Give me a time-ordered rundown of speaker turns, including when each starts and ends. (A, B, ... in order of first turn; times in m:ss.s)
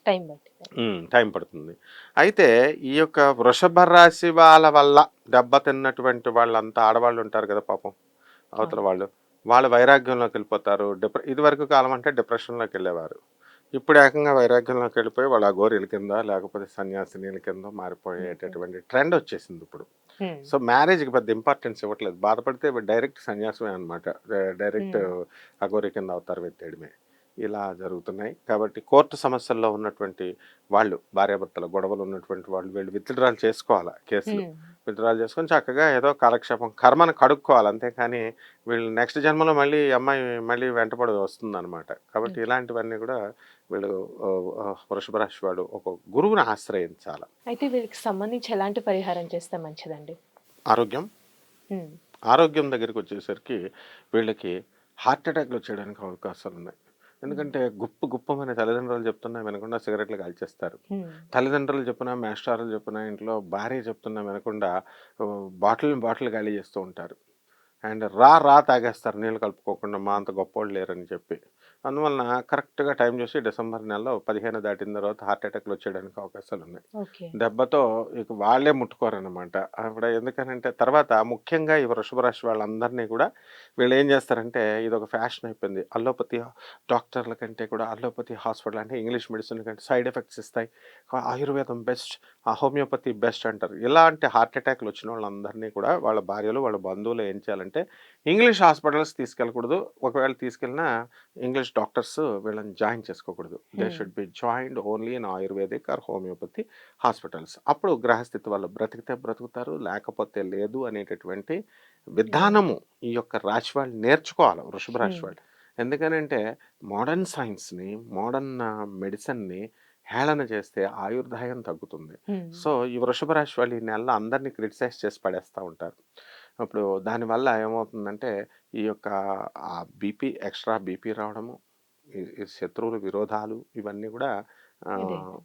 0:00.1-0:00.6 A
0:00.8-0:07.9 B
0:08.6-0:13.2 B
0:13.8-0:19.9 B
0:18.2-0:18.5 A
0:20.2-0:20.5 A
0:20.5-0:25.0 B
0:25.6-0:26.9 B
0:27.4-0:43.1 B
0:34.3-0:34.6 A
0:43.7-0:47.3 B
0:47.5-0:50.1 A
0:50.7-0:51.0 B
0:52.3-0:53.6 B
0:54.1-0:54.5 B
0:55.1-1:00.8 B
1:01.0-1:01.2 A
1:01.3-1:04.7 B
1:05.2-1:07.1 B
1:07.9-1:16.8 B
1:17.0-1:17.3 A
1:17.4-1:23.3 B
1:23.8-1:40.9 B
1:41.4-1:51.5 B
1:43.8-1:44.1 A
1:52.2-1:56.4 B
1:52.3-1:52.6 A
1:55.0-1:55.3 A
1:56.9-1:59.6 B
2:00.1-2:06.0 B
2:02.3-2:02.6 A
2:06.6-2:08.3 B
2:08.8-2:09.1 B
2:09.8-2:11.5 B
2:12.2-2:14.3 B
2:15.0-2:15.2 A